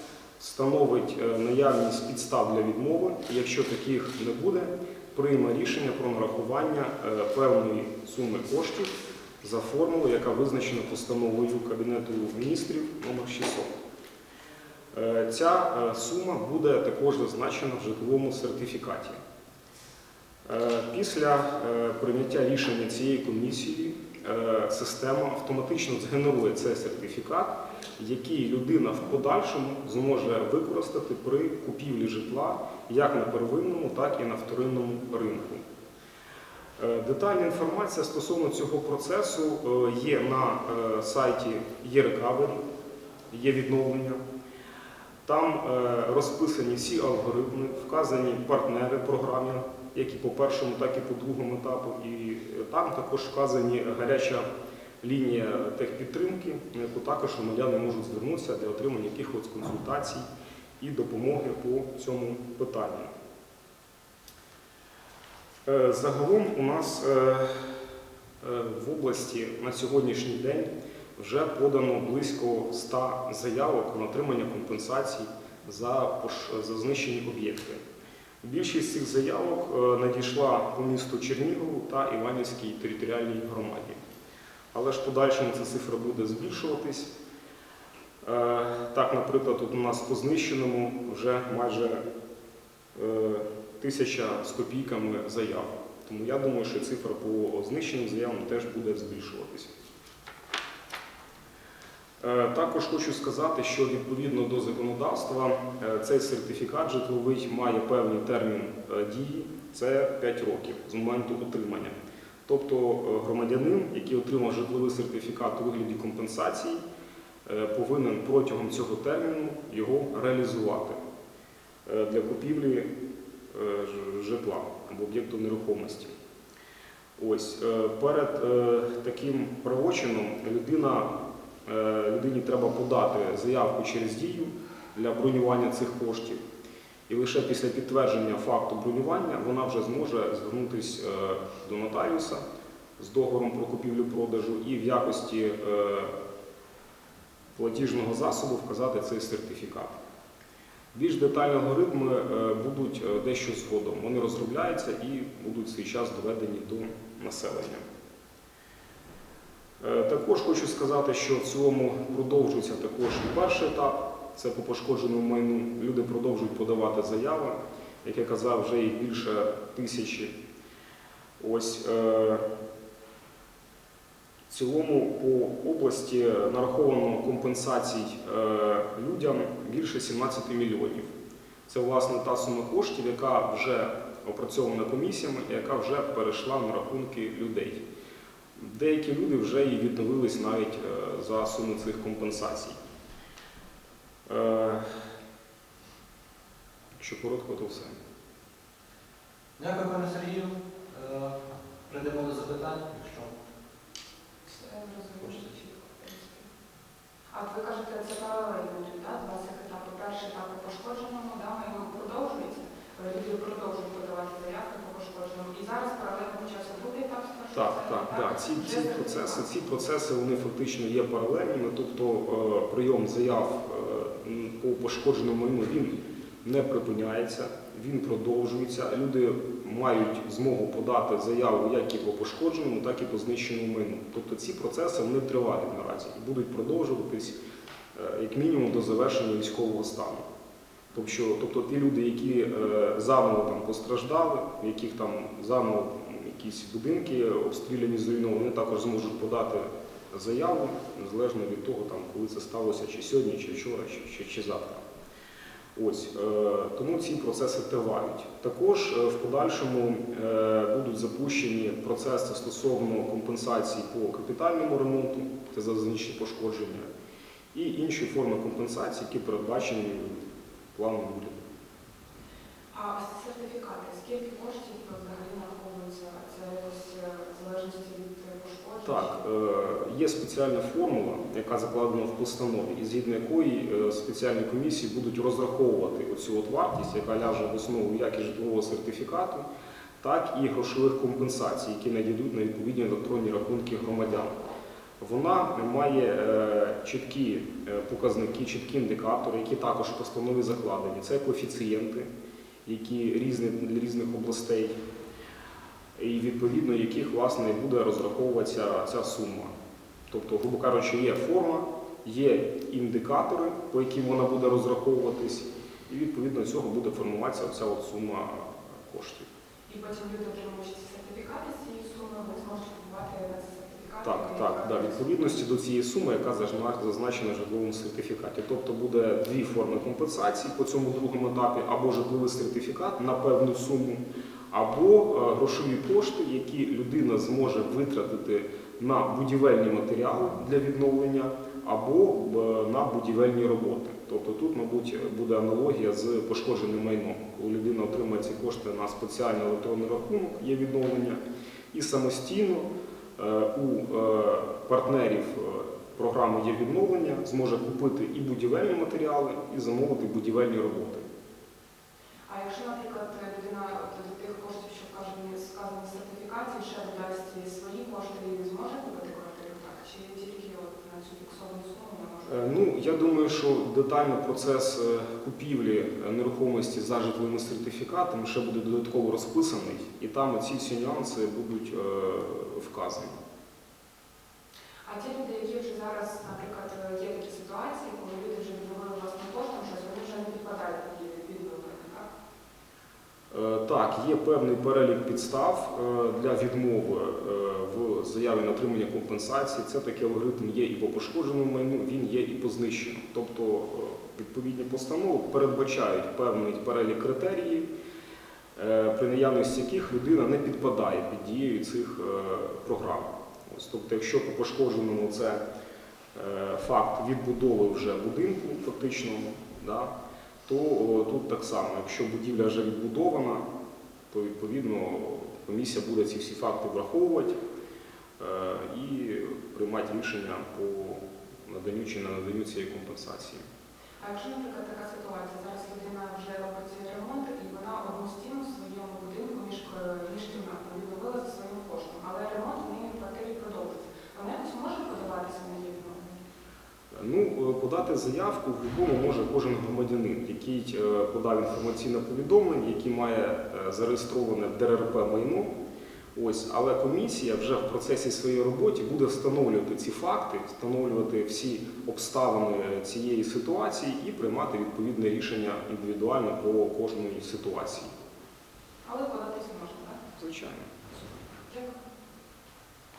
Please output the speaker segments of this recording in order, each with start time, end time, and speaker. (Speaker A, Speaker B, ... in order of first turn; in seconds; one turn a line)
Speaker A: 0.4-13.7
Speaker A: 14.9-19.2
Speaker A: 20.5-35.6
Speaker A: 36.8-42.6
Speaker A: 43.3-44.2
Speaker A: 45.2-54.5
Speaker A: 55.0-60.3
Speaker A: 60.8-63.1
Speaker A: 65.7-67.8
Speaker A: 68.4-77.8
Speaker A: 78.4-84.0
Speaker A: 84.7-87.1
Speaker A: 88.2-92.0
Speaker A: 93.0-99.7
Speaker A: 102.2-112.0
Speaker A: 112.5-116.8
Speaker A: 117.5-121.0
Speaker A: 121.9-122.9
Speaker A: 123.5-126.1
Speaker A: 127.2-131.1
Speaker A: 131.7-136.4
Speaker A: 137.1-142.4
Speaker A: 143.0-146.1
Speaker A: 147.6-150.0
Speaker A: 150.9-157.8
Speaker A: 159.8-170.3
Speaker A: 171.4-172.5
Speaker A: 174.5-181.1
Speaker A: 181.7-187.8
Speaker A: 188.6-192.8
Speaker A: 194.3-195.0
Speaker A: 197.0-198.0
Speaker B: 199.6-203.3
Speaker C: 204.5-206.5
Speaker B: 205.2-205.5
Speaker C: 207.3-219.6
Speaker A: 217.5-237.4
Speaker A: 237.9-240.2
Speaker A: 240.9-254.8
Speaker A: 255.8-266.9
Speaker A: 267.5-270.2
Speaker A: 270.7-271.4
Speaker C: 272.7-279.1
Speaker A: 278.9-289.5
Speaker A: 290.0-294.4
Speaker A: 295.0-302.1
Speaker A: 302.6-304.8
Speaker A: 306.0-309.5
Speaker A: 310.1-319.3
Speaker C: 319.7-325.1
Speaker A: 324.0-351.2
Speaker A: 351.7-361.1
Speaker C: 362.3-372.6
Speaker A: 372.3-383.1
Speaker C: 384.9-392.1
Speaker A: 393.3-407.7
Speaker A: 408.6-415.4
Speaker A: 416.1-419.9
Speaker A: 420.5-423.5
Speaker A: 424.1-427.4
Speaker A: 428.2-433.4
Speaker C: 434.0-446.1
Speaker A: 446.9-455.5
Speaker A: 456.1-467.9
Speaker C: 468.8-470.0
Speaker A: 470.2-470.7
Speaker C: 471.5-471.8